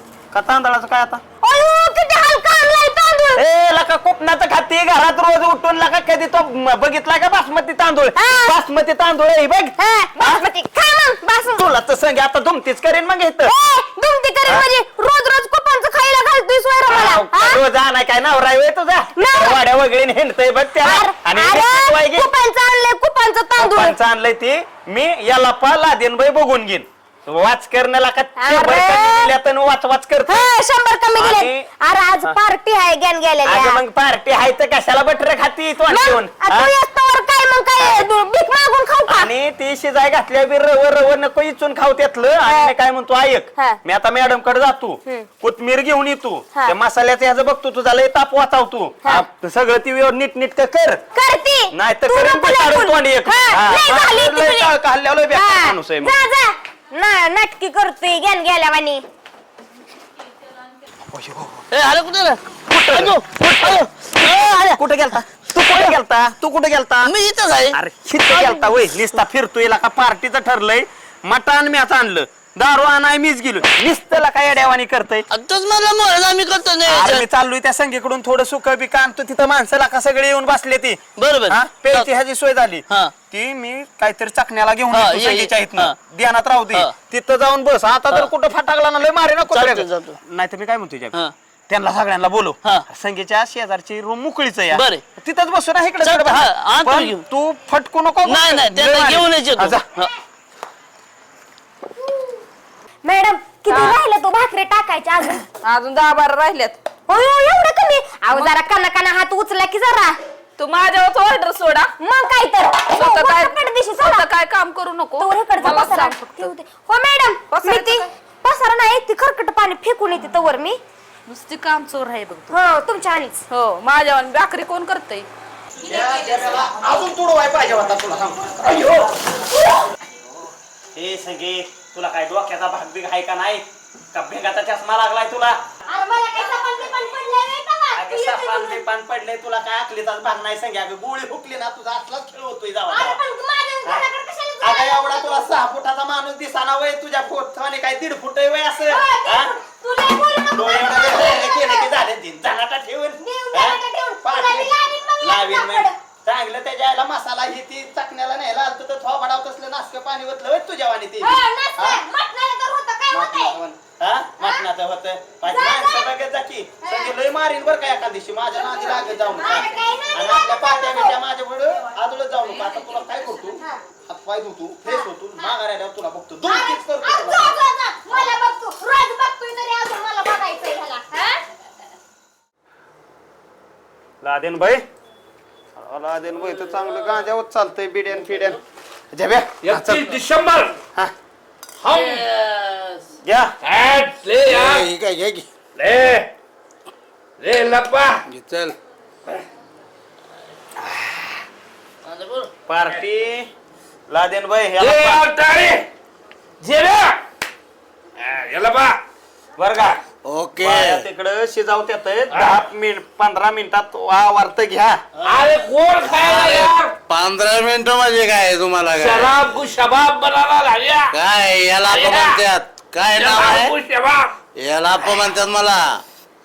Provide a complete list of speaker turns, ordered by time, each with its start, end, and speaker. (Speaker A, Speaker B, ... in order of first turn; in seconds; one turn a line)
Speaker A: 0.3-1.2
Speaker B: 1.4-3.4
Speaker A: 3.4-10.4
Speaker B: 8.2-8.6
Speaker B: 9.8-11.7
Speaker A: 11.5-13.5
Speaker B: 13.4-17.6
Speaker A: 16.9-22.3
Speaker B: 19.1-19.6
Speaker B: 20.8-23.9
Speaker A: 23.6-30.5
Speaker B: 28.4-29.3
Speaker B: 30.3-33.8
Speaker A: 31.1-31.7
Speaker A: 33.4-36.7
Speaker B: 35.9-39.3
Speaker A: 37.8-38.0
Speaker A: 39.1-51.0
Speaker B: 42.5-42.7
Speaker B: 51.1-54.7
Speaker A: 51.7-56.2
Speaker B: 55.3-59.0
Speaker A: 61.1-61.6
Speaker C: 61.7-62.4
Speaker A: 62.7-67.1
Speaker C: 62.9-64.8
Speaker C: 67.0-67.8
Speaker A: 67.7-75.2
Speaker B: 68.3-68.7
Speaker C: 75.3-77.3
Speaker A: 76.9-91.2
Speaker C: 81.2-82.1
Speaker C: 84.9-85.9
Speaker C: 89.5-90.2
Speaker A: 91.7-99.8
Speaker C: 94.7-95.0
Speaker C: 96.0-97.2
Speaker C: 98.2-100.1
Speaker B: 103.0-105.4
Speaker D: 103.7-104.0
Speaker D: 105.6-106.8
Speaker B: 107.1-110.2
Speaker D: 108.3-108.6
Speaker D: 110.6-111.9
Speaker B: 112.0-114.3
Speaker D: 112.9-116.5
Speaker B: 115.2-120.8
Speaker D: 117.5-118.1
Speaker D: 121.3-122.5
Speaker B: 122.5-123.4
Speaker D: 123.5-125.3
Speaker A: 125.8-129.4
Speaker D: 125.8-126.6
Speaker A: 130.9-135.6
Speaker B: 135.9-138.8
Speaker A: 136.3-136.9
Speaker A: 137.9-143.2
Speaker B: 142.9-145.4
Speaker A: 144.6-149.5
Speaker B: 148.7-151.9
Speaker A: 150.5-162.0
Speaker B: 153.2-155.9
Speaker B: 161.2-163.6
Speaker A: 163.1-178.4
Speaker B: 164.4-164.7
Speaker B: 165.4-166.1
Speaker B: 166.8-167.2
Speaker B: 168.5-171.2
Speaker B: 174.8-175.5
Speaker B: 176.4-181.4
Speaker A: 184.2-184.8
Speaker A: 185.8-188.6
Speaker C: 186.5-187.1
Speaker C: 188.1-188.6
Speaker A: 189.1-190.1
Speaker E: 189.6-190.8
Speaker E: 191.8-192.2
Speaker C: 191.8-193.1
Speaker A: 193.2-193.5
Speaker E: 193.6-194.9
Speaker F: 194.5-195.5
Speaker E: 195.8-196.3
Speaker E: 197.4-198.2
Speaker F: 198.3-198.8
Speaker C: 202.0-202.5
Speaker A: 202.7-203.5
Speaker A: 204.1-205.2
Speaker E: 204.8-205.8
Speaker E: 206.6-207.2
Speaker E: 208.2-208.9
Speaker A: 209.6-210.0
Speaker F: 210.2-211.1
Speaker A: 210.6-215.0
Speaker E: 212.3-212.6
Speaker E: 215.2-216.9
Speaker C: 215.3-215.6
Speaker F: 216.1-219.6
Speaker E: 218.9-221.1
Speaker F: 221.1-223.7
Speaker E: 221.9-222.4
Speaker E: 223.2-224.3
Speaker F: 224.6-226.0